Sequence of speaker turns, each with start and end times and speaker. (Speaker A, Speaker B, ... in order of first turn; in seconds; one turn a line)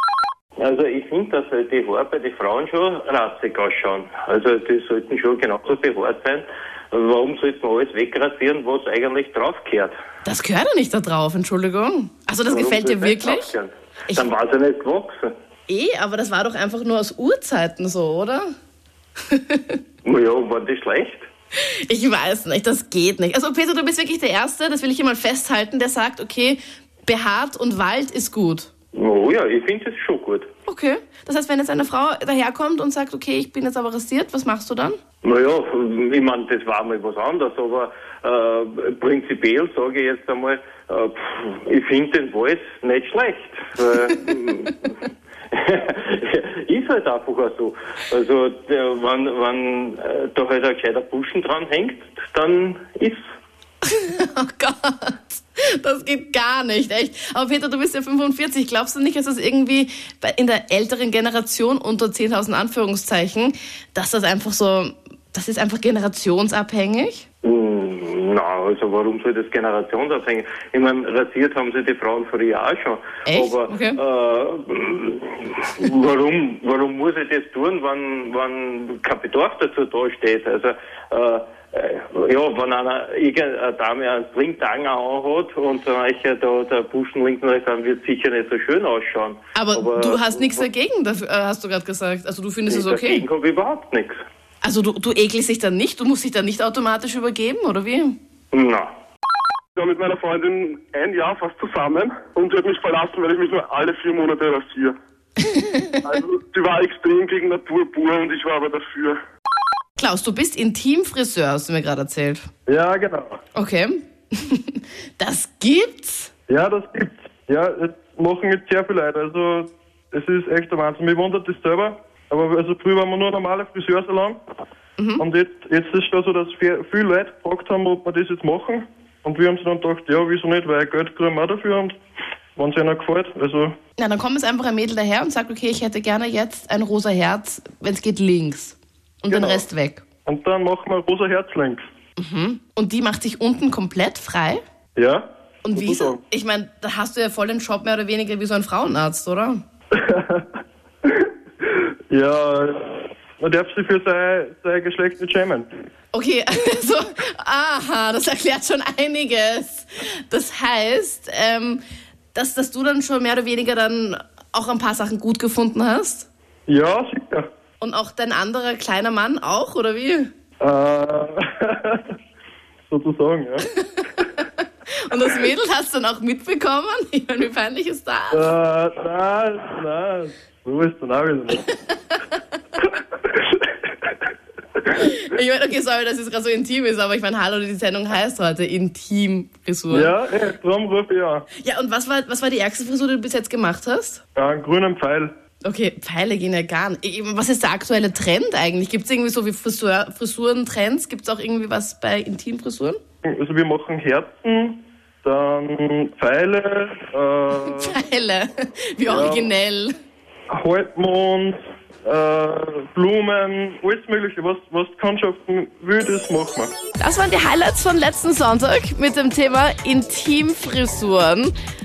Speaker A: 0.6-9.9
Speaker B: 10.2-13.5
Speaker A: 12.5-15.3
Speaker B: 15.7-18.5
Speaker B: 19.3-19.8
Speaker A: 20.1-21.3
Speaker B: 21.9-28.7
Speaker A: 28.9-30.5
Speaker B: 30.7-35.0
Speaker A: 35.2-44.9
Speaker A: 45.5-53.2
Speaker B: 53.8-67.2
Speaker A: 67.4-90.6
Speaker B: 73.3-74.0
Speaker B: 89.5-93.3
Speaker A: 92.7-94.2
Speaker B: 94.6-98.2
Speaker A: 98.5-98.9
Speaker C: 99.8-105.0
Speaker B: 105.4-106.1
Speaker C: 106.2-109.2
Speaker B: 110.0-112.5
Speaker D: 112.7-113.4
Speaker B: 113.5-116.3
Speaker D: 116.5-124.4
Speaker B: 125.0-125.2
Speaker D: 125.2-132.0
Speaker D: 132.6-133.8
Speaker B: 134.0-140.0
Speaker D: 139.3-139.6
Speaker D: 140.3-141.8
Speaker B: 142.2-144.6
Speaker D: 145.0-146.2
Speaker B: 145.7-149.6
Speaker D: 150.0-155.7
Speaker B: 156.1-161.8
Speaker B: 162.3-166.3
Speaker D: 166.7-167.4
Speaker B: 167.8-170.3
Speaker D: 170.6-172.0
Speaker D: 172.9-173.7
Speaker B: 173.8-174.5
Speaker B: 175.1-178.5
Speaker D: 178.3-181.7
Speaker D: 183.3-183.7
Speaker B: 184.9-190.1
Speaker D: 189.9-191.5
Speaker B: 191.6-194.2
Speaker D: 194.3-195.3
Speaker B: 195.6-203.0
Speaker D: 203.3-208.0
Speaker B: 207.6-209.9
Speaker D: 209.0-209.5
Speaker D: 210.5-216.7
Speaker B: 217.0-221.5